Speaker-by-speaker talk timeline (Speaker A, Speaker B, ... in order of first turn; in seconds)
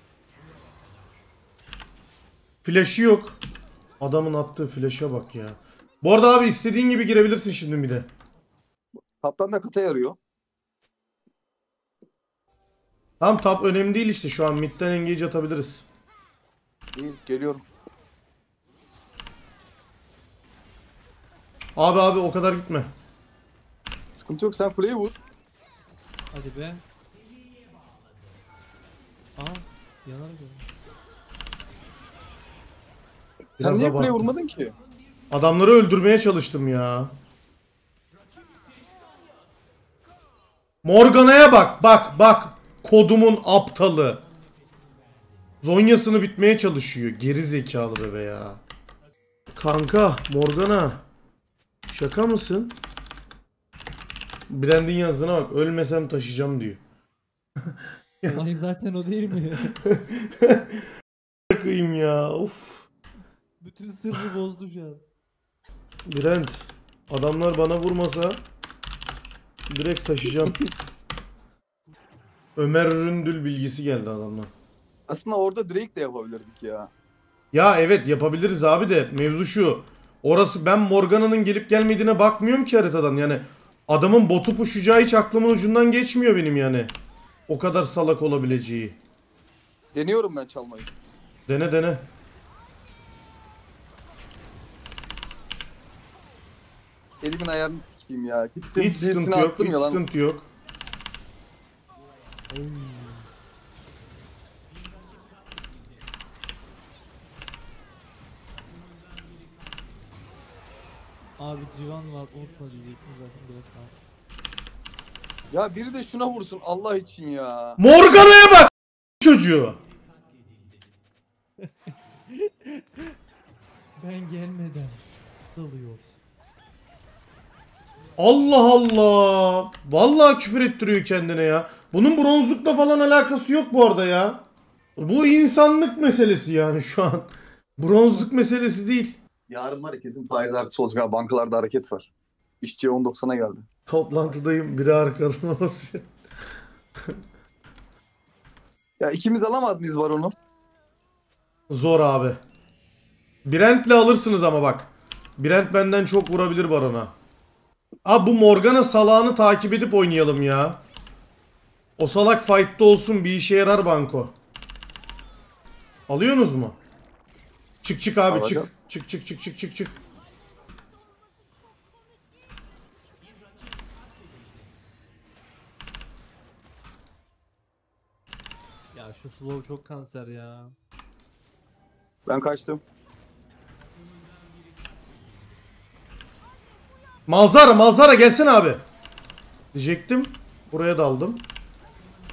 Speaker A: 2.6-3.4, 4.0-8.1, 13.2-15.9, 21.8-22.9, 33.6-34.2, 35.3-37.1, 40.8-44.2, 45.6-48.6, 49.6-51.0, 51.9-52.8, 54.5-56.8, 59.8-60.8, 61.5-62.9, 66.1-68.4, 69.7-70.6, 72.6-74.5, 77.5-86.9, 87.5-89.0, 91.5-92.1, 98.8-100.5, 117.8-119.8, 128.2-134.4, 135.0-139.2, 143.9-146.1, 151.7-152.4, 153.5-157.2, 158.1-160.8, 162.0-164.3, 166.1-166.8, 167.8-170.0, 187.3-188.8, 189.7-191.4
Speaker B: 9.2-10.2, 16.9-17.6, 24.1-25.2, 33.6-34.8, 75.1-76.9, 89.9-90.9, 97.2-100.0, 115.5-117.8, 139.5-142.1, 142.6-143.7, 149.0-150.3, 168.3-168.7, 182.3-182.8
Speaker C: 26.3-26.8, 29.4-30.7, 58.2-59.8, 63.6-65.0, 102.5-103.3, 111.4-114.0, 121.6-123.2, 124.0-126.2, 178.9-180.8